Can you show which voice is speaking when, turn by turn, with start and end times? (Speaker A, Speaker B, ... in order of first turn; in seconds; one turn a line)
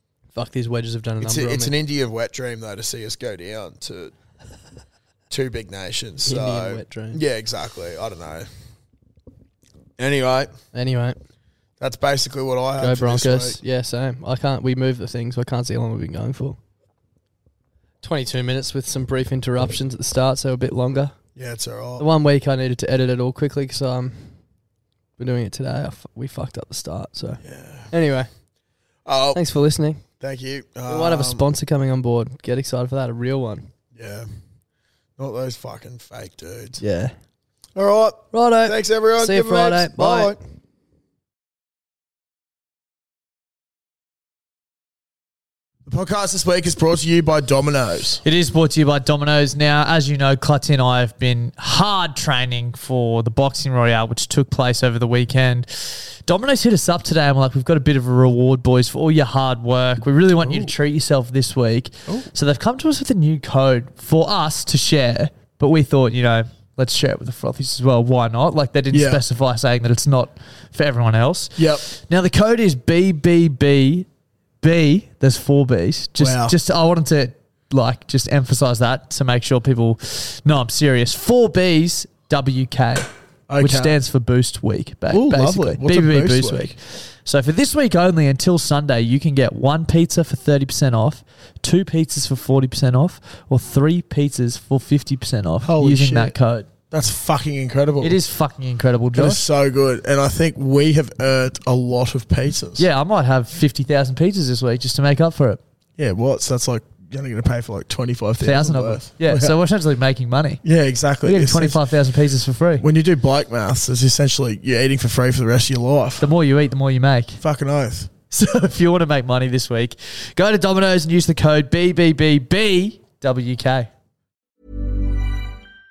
Speaker A: 0.3-1.7
Speaker B: 1.2-4.1
Speaker B: 5.3-8.5
Speaker A: 6.2-7.2
Speaker B: 10.0-10.5
Speaker A: 10.7-11.2
Speaker B: 11.8-13.6
Speaker A: 12.8-16.6
Speaker A: 18.0-21.1
Speaker B: 21.4-22.1
Speaker A: 22.0-24.4
Speaker A: 25.2-28.3
Speaker B: 27.4-27.9
Speaker B: 29.1-29.4
Speaker A: 29.3-30.0
Speaker B: 30.2-31.5
Speaker A: 30.9-33.7
Speaker B: 33.9-34.3
Speaker B: 35.2-36.8
Speaker A: 36.8-37.2
Speaker B: 37.8-40.4
Speaker A: 38.3-40.4
Speaker B: 45.9-48.2
Speaker C: 48.2-74.1
Speaker B: 60.4-60.7
Speaker B: 68.9-69.2
Speaker B: 71.6-71.8
Speaker C: 74.6-83.1
Speaker B: 76.2-76.6
Speaker B: 83.5-84.0
Speaker C: 83.6-96.7
Speaker B: 85.1-86.8
Speaker B: 95.6-96.3
Speaker B: 96.9-98.2
Speaker C: 98.0-99.4
Speaker B: 99.2-102.9
Speaker C: 102.8-105.6
Speaker B: 106.0-109.6
Speaker C: 108.4-110.6
Speaker B: 110.6-111.8
Speaker C: 111.2-112.8
Speaker B: 112.8-116.3
Speaker C: 116.2-117.4
Speaker B: 117.4-118.1
Speaker C: 118.3-123.9